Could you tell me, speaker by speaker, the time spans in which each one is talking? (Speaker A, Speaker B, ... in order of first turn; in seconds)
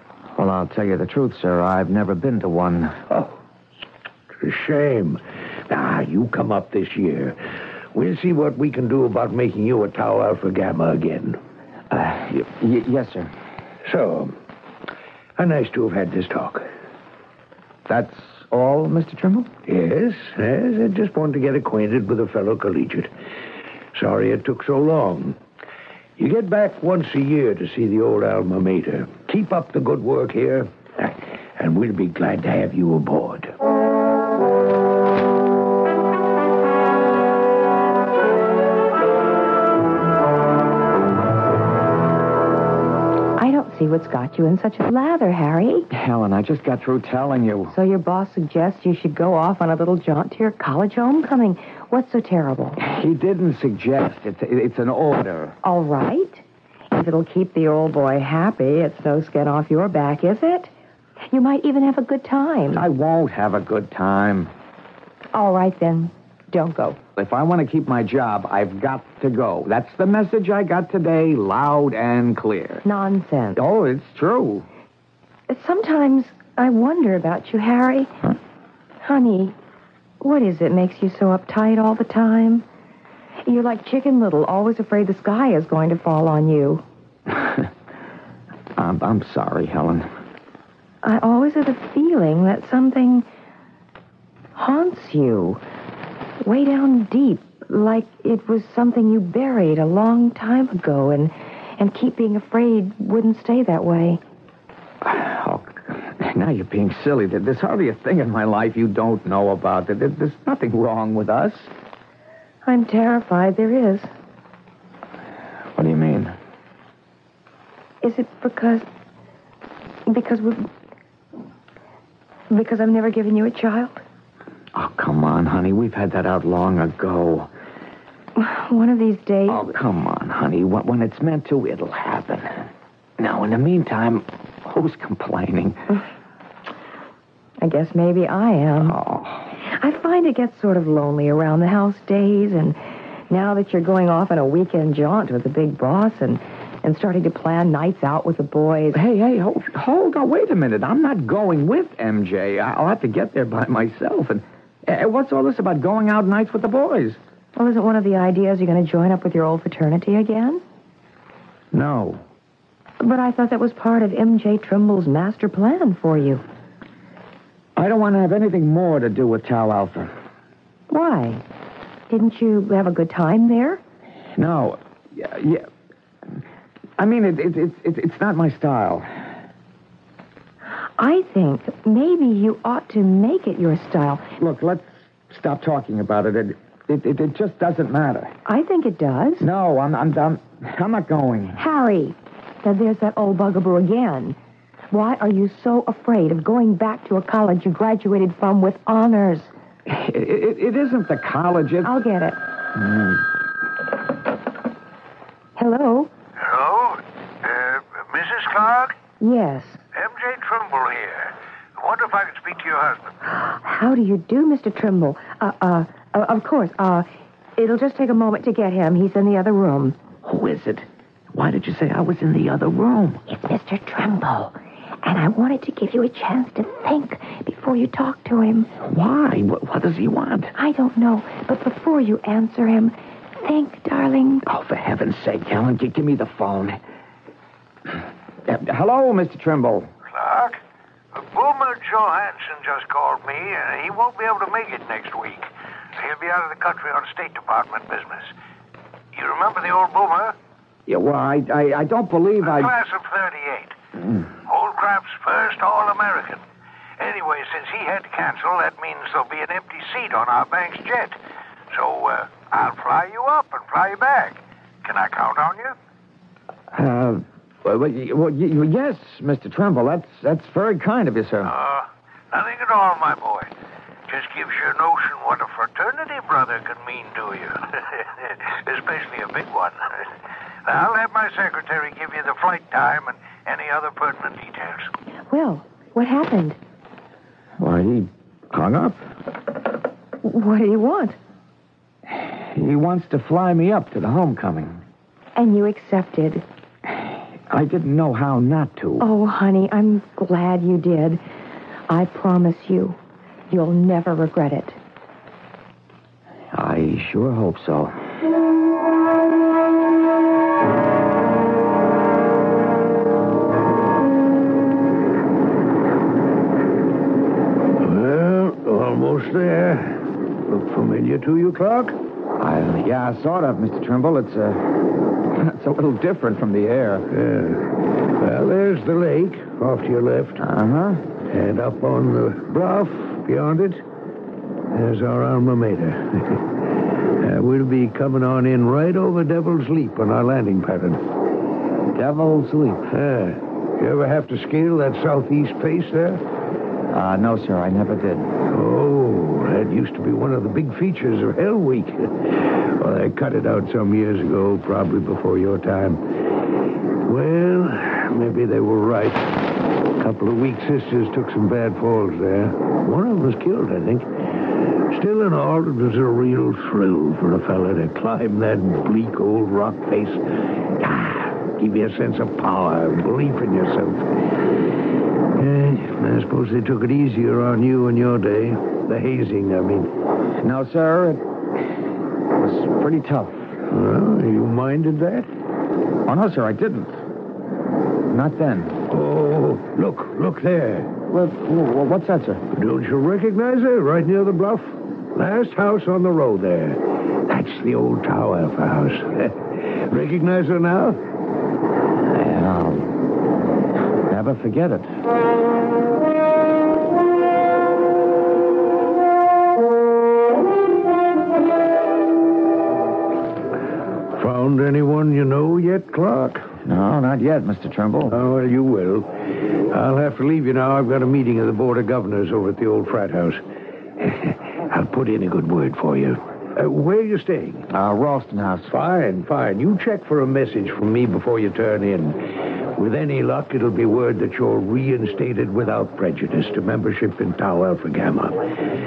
Speaker A: 0.4-3.0, 11.9-13.3, 17.9-19.5, 45.9-47.8, 52.8-55.6, 62.7-64.5, 67.2-72.8, 73.5-74.7, 87.3-87.7, 88.8-90.1, 105.0-111.7, 115.8-116.4, 124.7-127.5, 129.5-132.7, 133.2-135.9, 138.8-139.5, 148.9-157.2, 161.7-162.2, 167.8-170.1, 174.4-175.7, 177.0-179.1, 184.4-188.3, 189.4-191.6, 199.9-202.0, 202.8-203.2, 220.2-223.2, 228.8-230.5, 234.4-236.8, 238.4-239.9, 250.9-252.8, 266.7-271.5, 287.6-289.0, 292.1-294.8, 297.5-299.1, 306.5-307.9, 322.4-327.1, 330.4-331.1, 341.9-342.8, 346.9-348.3, 380.4-381.2, 382.4-383.5, 386.1-387.0, 388.1-388.8, 391.1-392.4, 402.1-403.0, 404.1-404.9, 416.6-418.2, 427.7-428.7
Speaker B: 3.1-3.4, 4.4-7.4, 7.9-11.4, 13.8-14.4, 15.4-16.7, 19.7-23.1, 23.9-25.4, 26.2-33.5, 206.4-209.0, 209.9-213.1, 240.1-240.6, 241.1-248.3, 249.1-250.4, 252.4-253.8, 254.5-256.4, 257.0-261.2, 261.7-265.8, 271.4-273.5, 274.1-280.1, 280.6-284.9, 317.8-322.0, 327.1-330.4, 331.3-333.8, 334.7-336.6, 337.2-341.0, 342.9-346.2, 348.5-356.4, 357.1-359.4, 360.0-364.2, 364.9-374.0, 375.3-379.9, 383.7-385.3, 388.9-390.9, 392.5-401.0, 414.1-416.5, 418.1-423.4, 424.0-427.7, 428.7-438.5
Speaker C: 43.4-45.9, 47.7-52.8, 55.6-60.7, 61.3-62.9, 65.3-67.0, 72.8-73.6, 75.5-78.1, 79.0-79.6, 80.2-82.7, 83.5-86.8, 91.0-93.3, 94.5-95.6, 96.4-104.2, 112.6-114.1, 118.0-118.9, 120.1-120.7, 122.5-124.0, 128.4-129.7, 137.6-139.0, 139.6-149.0, 157.6-160.6, 163.0-166.4, 170.9-171.4, 172.1-173.8, 181.0-184.3, 188.5-189.5, 191.6-194.4, 194.9-199.5, 201.8-202.4, 205.6-206.1, 209.2-209.8, 213.3-220.0, 223.3-228.7, 230.6-234.4, 285.3-286.6, 290.2-291.2, 295.4-296.4, 299.0-301.2, 301.9-304.8